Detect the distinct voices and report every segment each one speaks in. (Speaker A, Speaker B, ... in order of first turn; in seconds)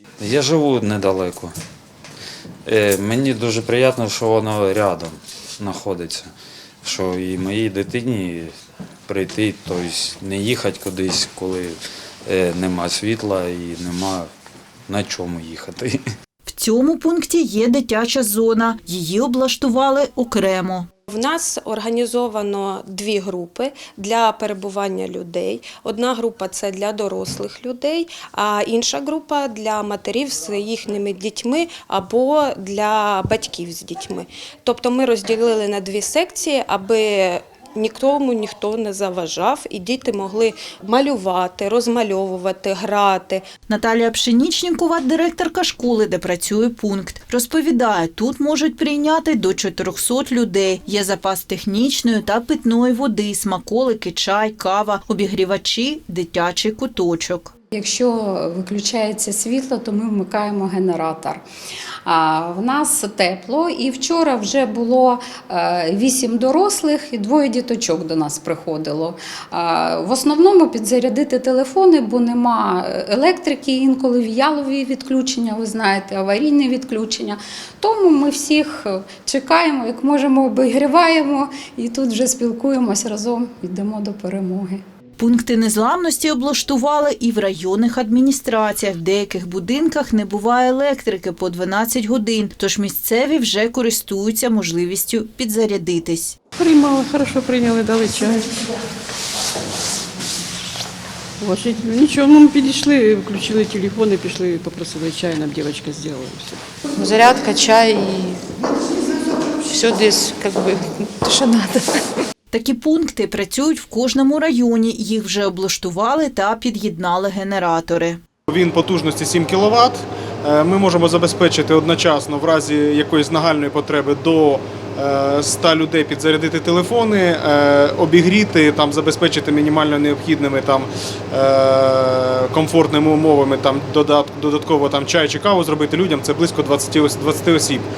Speaker A: 0.2-1.5, 2.6-6.3, 6.8-8.5, 9.1-14.3, 14.9-16.0
Speaker B: 16.4-20.9, 43.7-57.5, 85.2-96.4, 112.5-118.2
Speaker C: 21.1-43.4
Speaker D: 57.7-61.4, 62.0-84.8
Speaker E: 96.6-98.6, 101.4-106.6
Speaker F: 106.9-108.4, 109.7-111.9
Speaker G: 118.5-137.8